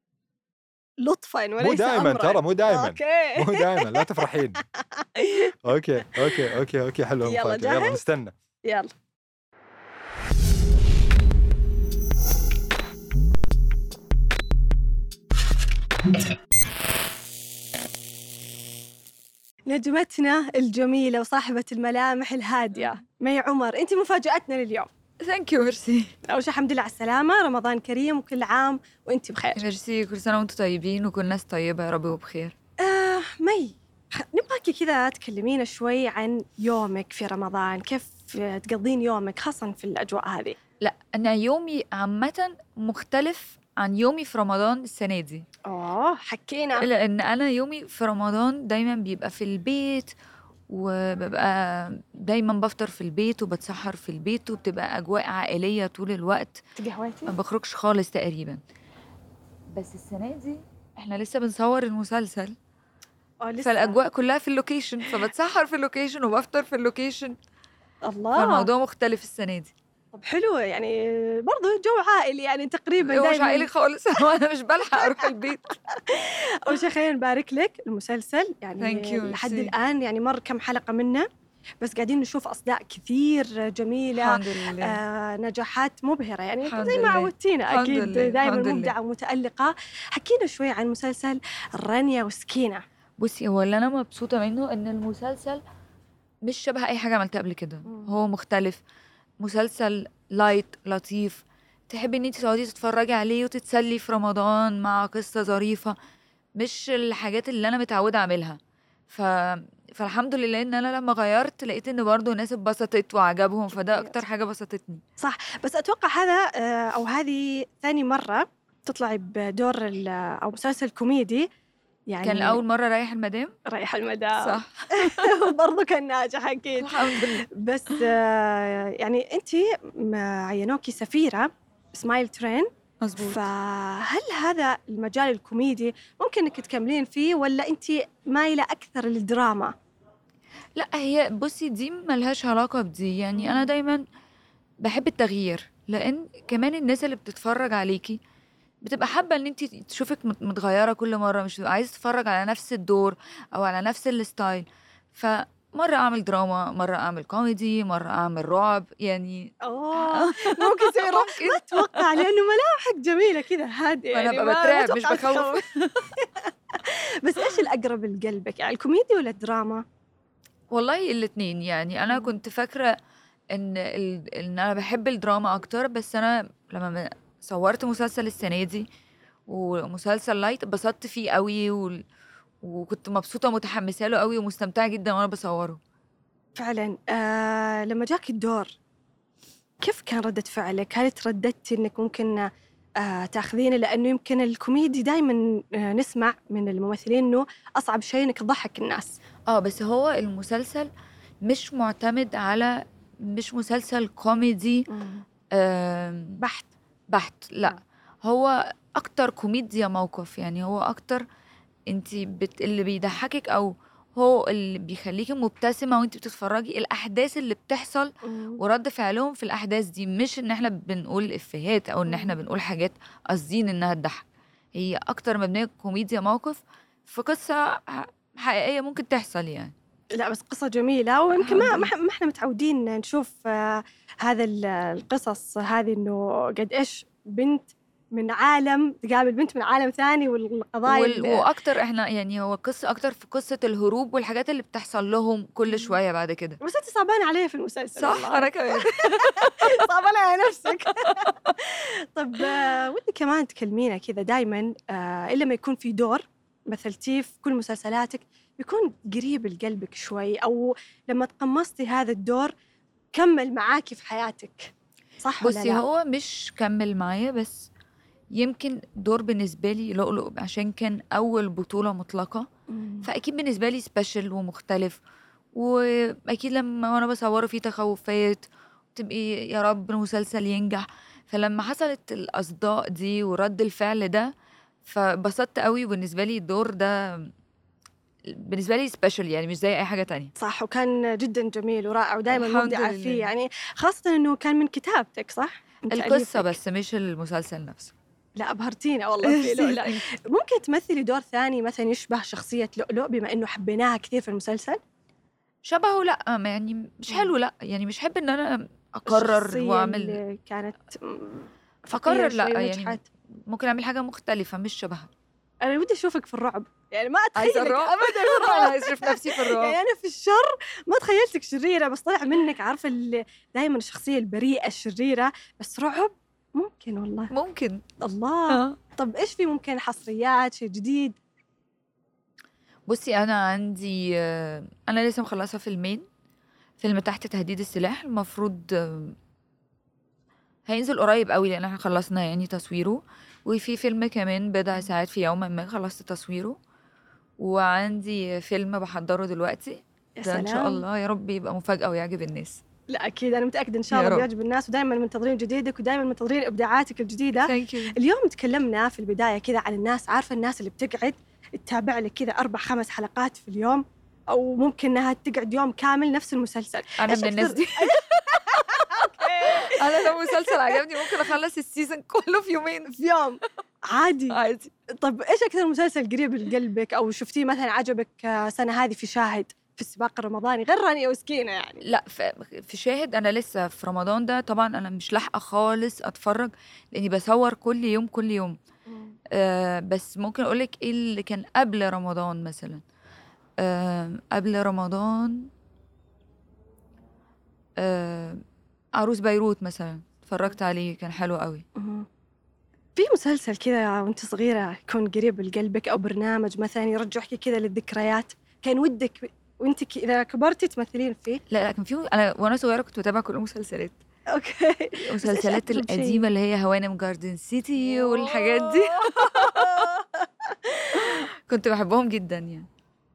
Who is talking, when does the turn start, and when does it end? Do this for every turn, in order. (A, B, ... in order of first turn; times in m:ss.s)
0:01.0-0:04.3 A
0:01.6-0:04.6 B
0:04.8-0:05.6 A
0:05.6-0:08.3 B
0:07.2-0:08.0 A
0:08.6-0:08.9 A
0:19.7-0:24.9 A
0:25.2-0:26.1 C
0:26.3-0:29.6 A
0:29.6-0:32.5 C
0:32.8-0:40.6 A
0:40.8-0:45.4 C
0:45.6-0:46.8 A
0:46.8-0:50.1 C
0:50.7-0:56.6 C
0:56.8-0:57.3 A
0:57.3-0:58.6 C
0:59.7-1:02.5 C
1:03.4-1:04.0 A
1:03.6-1:07.4 C
1:08.0-1:08.7 A
1:08.4-1:09.7 C
1:10.1-1:13.7 A
1:13.0-1:15.7 C
1:14.9-1:21.3 A
1:18.8-1:19.7 C
1:21.8-1:32.8 A
1:24.1-1:25.0 C
1:26.7-1:28.9 C
1:33.2-1:35.6 C
1:36.4-1:38.8 C
1:37.8-1:38.1 A
1:39.4-1:45.9 C
1:46.6-1:48.6 C
1:49.1-1:55.0 C
1:53.8-1:54.2 A
1:55.2-2:01.5 A
2:02.1-2:02.6 A
2:02.2-2:03.6 C
2:03.6-2:12.7 A
2:04.4-2:05.5 C
2:06.8-2:08.1 C
2:13.0-2:13.4 C
2:13.2-2:19.7 A
2:20.8-2:24.0 C
2:23.4-2:23.7 A
2:24.8-2:28.2 C
2:28.8-2:42.2 C
2:39.6-2:49.8 A
2:44.1-2:46.1 C
2:50.7-2:53.0 C
2:52.1-2:52.3 A
2:53.5-2:58.9 C
2:59.5-3:02.0 C
3:02.6-3:05.8 C
3:06.6-3:08.8 A
3:09.8-3:19.2 A
3:19.5-3:20.9 C
3:21.4-3:24.9 C
3:24.9-3:25.2 A
3:25.5-3:26.4 C
3:26.4-3:26.7 A
3:27.1-3:31.2 C
3:31.9-3:44.2 C
3:38.2-3:38.6 A
3:42.0-3:42.4 A
3:44.7-3:49.7 C
3:50.1-4:01.4 A
3:51.3-3:51.9 C
4:00.9-4:06.6 C
4:05.7-4:06.0 A
4:06.6-4:22.5 A
4:08.0-4:09.8 C
4:10.8-4:11.5 C
4:23.1-4:25.8 A
4:25.4-4:27.7 C
4:28.3-4:32.5 C
4:32.7-4:33.1 A
4:33.0-4:35.0 C
4:35.5-4:44.3 C
4:44.8-4:47.3 C
4:48.3-4:50.3 C
4:50.4-4:56.5 A
4:52.3-4:53.3 C
4:55.9-4:57.9 C
4:58.4-5:04.8 A
4:59.2-5:00.0 C
5:05.6-5:10.2 C
5:07.1-5:07.3 A
5:09.1-5:13.0 A
5:11.9-5:15.1 C
5:15.6-5:27.3 A
5:17.4-5:19.8 C
5:27.3-5:27.8 C
5:28.0-5:31.2 A
5:28.5-5:28.8 C
5:32.9-5:36.0 C
5:36.8-5:39.1 C
5:40.7-5:46.6 C
5:47.4-5:52.6 C
5:50.2-5:50.8 A
5:52.9-6:11.2 A
5:53.9-5:54.3 C
5:57.4-5:58.0 C
6:07.0-6:12.9 C
6:12.9-6:14.4 A
6:14.3-6:14.7 C
6:15.0-6:21.8 A
6:21.8-6:28.6 C
6:28.9-6:29.2 A
6:29.3-6:32.8 C
6:33.6-6:35.5 C
6:37.8-6:38.4 C
6:38.9-6:41.6 C
6:41.8-6:42.1 A
6:43.0-6:51.4 A
6:51.5-6:54.0 C
6:54.3-6:56.2 A
6:55.0-6:59.9 C
6:57.8-7:01.3 A
7:01.0-7:02.7 C